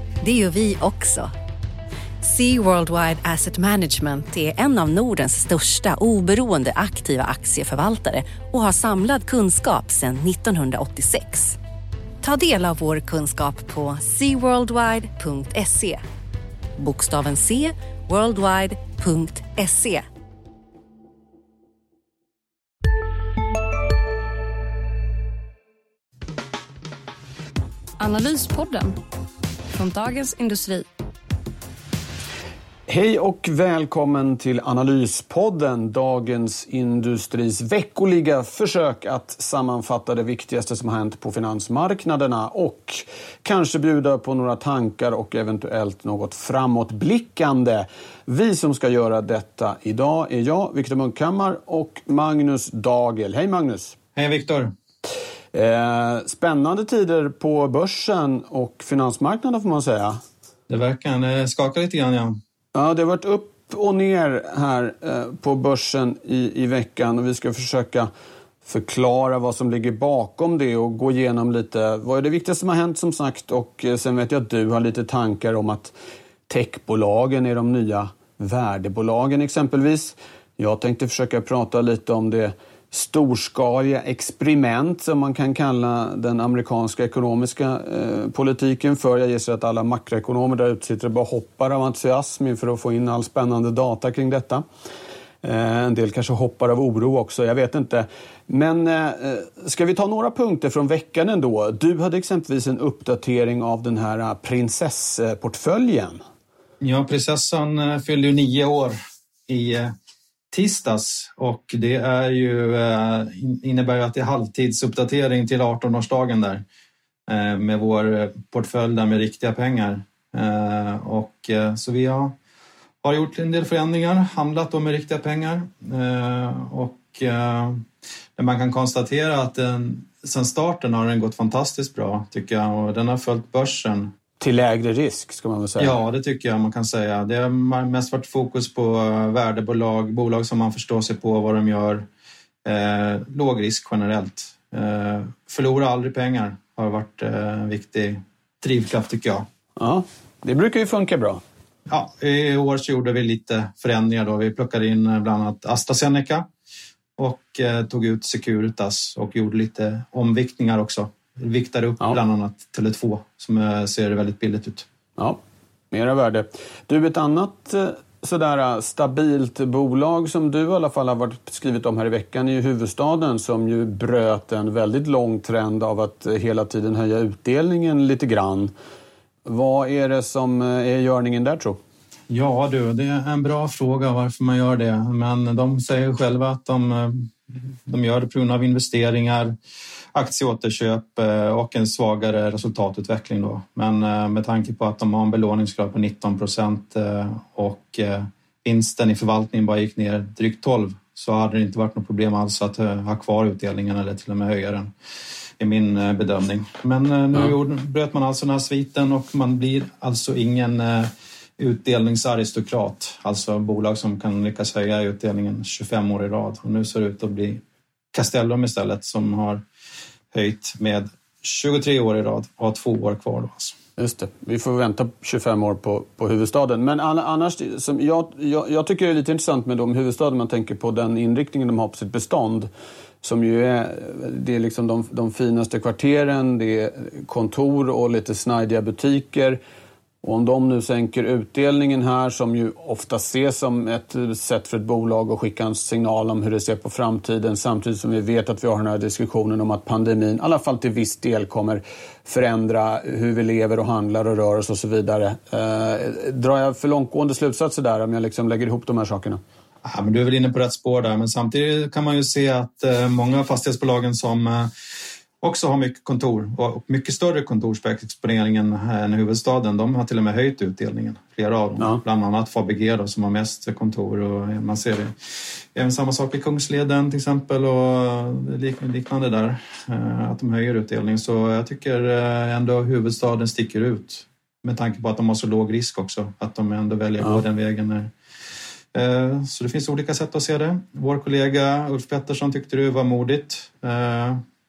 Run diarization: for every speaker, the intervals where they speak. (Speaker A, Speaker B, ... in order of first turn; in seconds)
Speaker A: 0.2-1.3, 2.2-11.6, 12.2-16.0, 16.8-20.0
Speaker B: 28.0-29.0, 29.7-30.9
Speaker C: 32.9-54.0, 55.5-60.2, 62.8-68.1, 68.7-75.9, 76.5-94.6, 95.4-106.2, 134.4-136.0, 149.8-151.4, 165.9-178.7, 179.4-181.8, 224.0-232.7, 233.2-239.6, 240.2-259.4
Speaker D: 54.2-54.7, 60.7-62.4, 106.8-109.9, 110.5-116.6, 117.3-122.4, 123.0-127.8, 128.4-134.1, 135.8-142.1, 142.7-149.5, 151.9-156.5, 157.2-164.9, 182.3-189.6, 190.1-204.9, 205.6-217.6, 218.1-219.6, 220.3-223.8, 259.8-264.7, 265.4-288.1, 288.9-294.4